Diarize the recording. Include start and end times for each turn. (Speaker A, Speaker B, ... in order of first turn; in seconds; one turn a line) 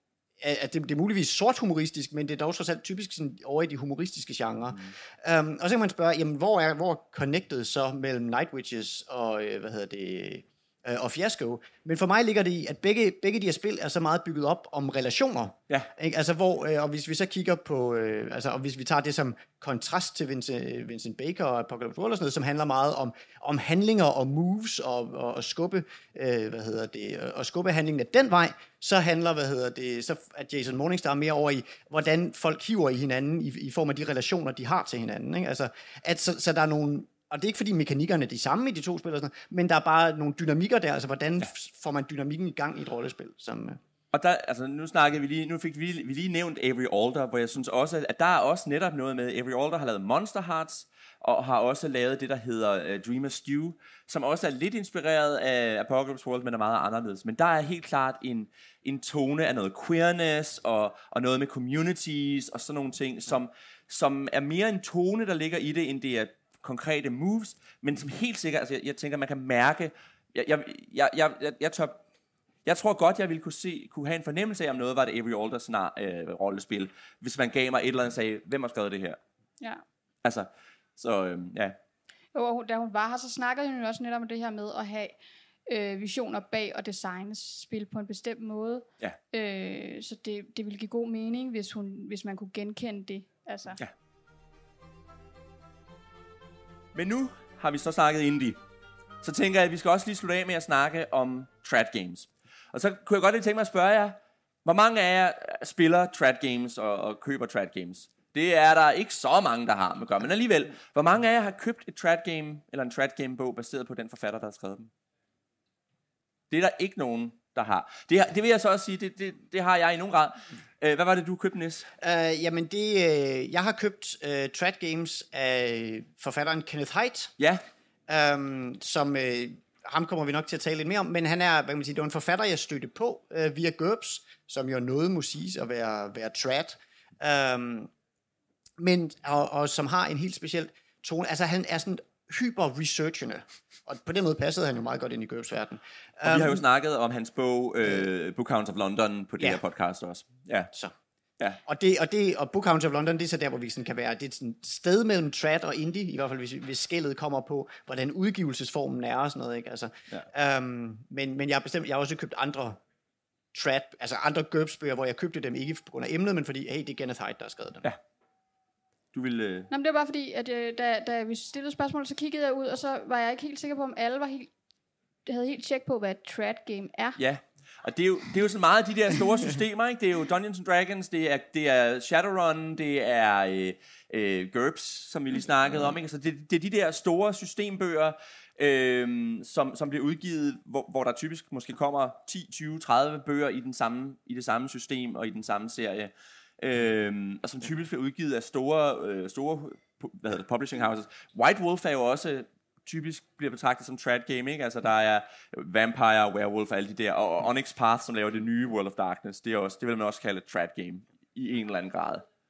Speaker A: 0.4-43.8
Speaker B: 44.1-72.0
Speaker B: 72.7-79.2
Speaker B: 80.2-81.8
Speaker C: 82.3-93.8
Speaker B: 96.9-98.6
Speaker B: 99.2-114.9
Speaker B: 116.5-121.9
Speaker A: 122.0-127.3
Speaker A: 128.1-137.9
Speaker A: 138.8-146.6
Speaker B: 146.2-150.7
Speaker A: 151.6-162.8
Speaker A: 163.5-167.9
Speaker B: 169.1-169.7
Speaker C: 169.7-174.5
Speaker C: 175.2-177.2
Speaker B: 177.2-212.2